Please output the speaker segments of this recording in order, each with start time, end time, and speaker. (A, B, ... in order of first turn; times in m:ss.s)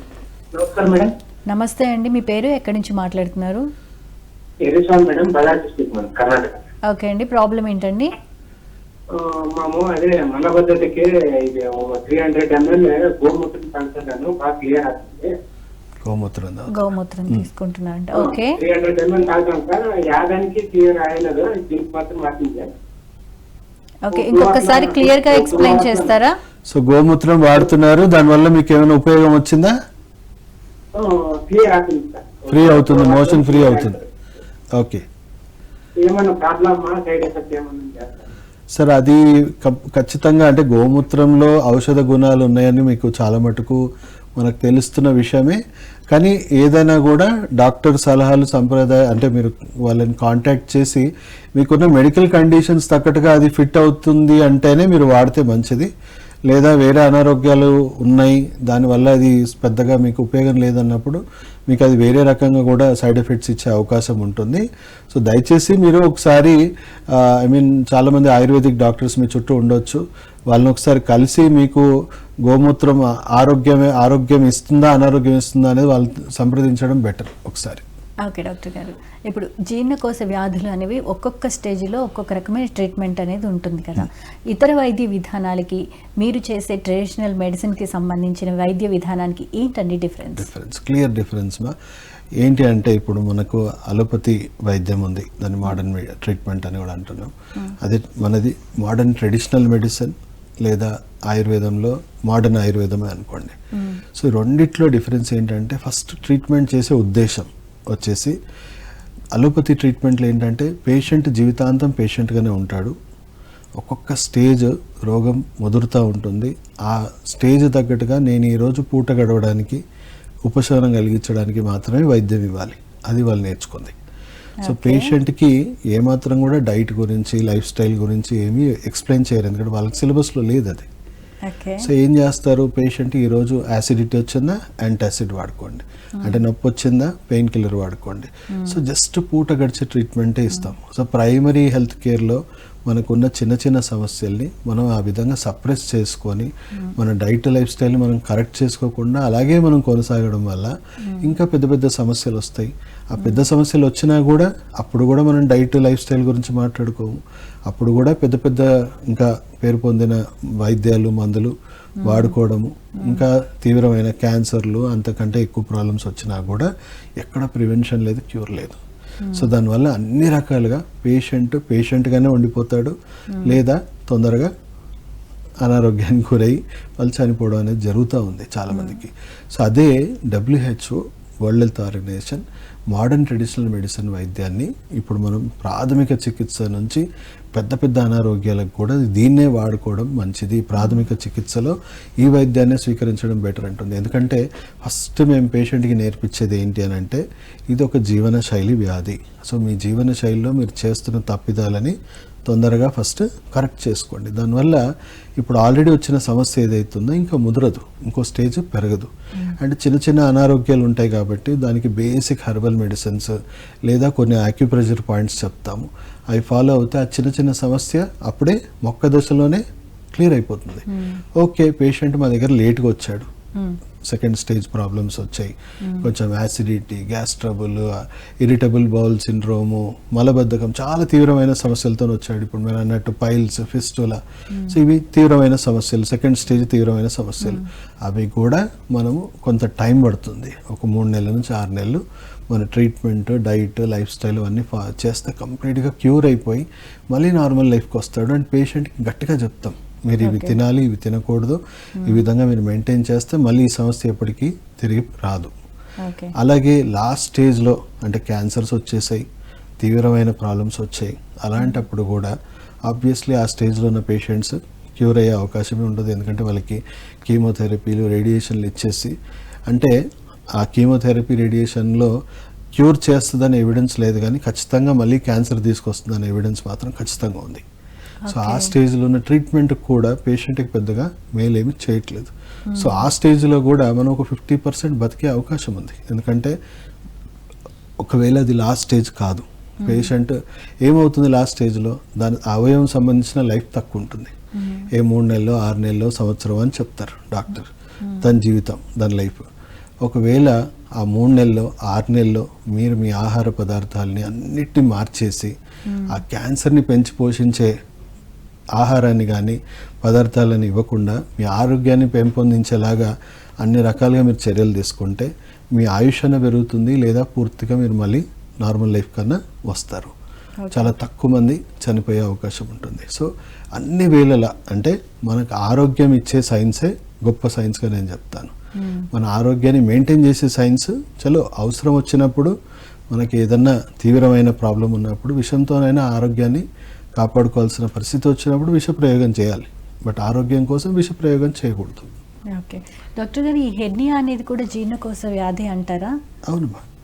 0:00.5-0:01.1 A
0:01.5-0:03.6 B
0:04.6-0:06.6 A
0:06.9-0:08.1 B
0:09.1-0:15.3 A
0:16.0-0:17.4 C
0:16.7-0:18.6 B
0:18.1-0:22.7 A
0:24.0-0:26.3 B
0:24.1-0:26.2 A
0:26.7-0:29.7 C
0:30.9-0:34.0 A
0:32.5-0:34.0 C
0:36.0-0:38.3 A
0:38.8-0:43.8 C
0:44.4-0:45.6 C
0:46.1-0:55.9 C
0:56.5-1:06.6 C
1:07.1-1:11.8 C
1:12.5-1:17.8 C
1:18.2-1:30.5 B
1:30.4-1:31.7 C
1:32.4-1:40.1 C
1:40.6-1:43.6 C
1:43.8-1:44.0 B
1:44.2-1:48.3 C
1:49.4-1:52.9 C
1:53.8-1:59.8 C
2:00.5-2:03.9 C
2:04.6-2:05.1 B
2:04.6-2:10.9 C
2:11.4-2:11.9 B
2:11.8-2:37.1 C
2:18.5-2:18.8 B
2:31.0-2:31.3 B
2:37.7-2:41.5 C
2:42.0-2:42.3 B
2:42.0-2:46.7 C
2:47.2-2:48.8 C
2:49.2-2:49.5 B
2:49.3-2:54.5 C
2:55.6-3:07.0 C
2:58.7-2:59.0 B
3:07.6-3:21.9 C
3:10.8-3:11.0 B
3:22.5-3:24.8 C
3:25.4-3:33.3 C
3:33.9-3:39.6 C
3:40.2-3:40.8 C
3:40.9-3:41.2 B
3:41.4-3:43.3 C
3:44.1-3:47.9 C
3:45.8-3:46.1 B
3:48.4-4:15.5 C
4:10.2-4:10.6 B
4:16.0-4:16.3 B
4:16.4-4:19.2 C
4:19.8-4:22.3 C
4:22.9-4:29.1 C
4:29.7-4:29.9 C
4:30.6-4:32.1 C
4:32.8-4:37.6 C
4:38.2-4:38.7 B
4:38.3-4:46.5 C
4:42.7-4:43.1 B
4:48.0-4:54.3 C
4:49.8-4:50.1 B
4:54.6-4:54.9 B
4:54.9-4:57.7 C
4:58.2-4:59.4 C
5:00.0-5:05.5 C
5:05.9-5:06.2 B
5:06.1-5:07.7 C
5:08.8-5:13.1 C
5:13.6-5:20.1 C
5:20.6-5:20.9 B
5:20.7-5:28.5 C
5:28.8-5:29.1 B
5:29.1-5:32.5 C
5:33.1-5:36.6 C
5:37.2-5:42.1 C
5:42.5-5:46.1 B
5:46.5-5:46.8 C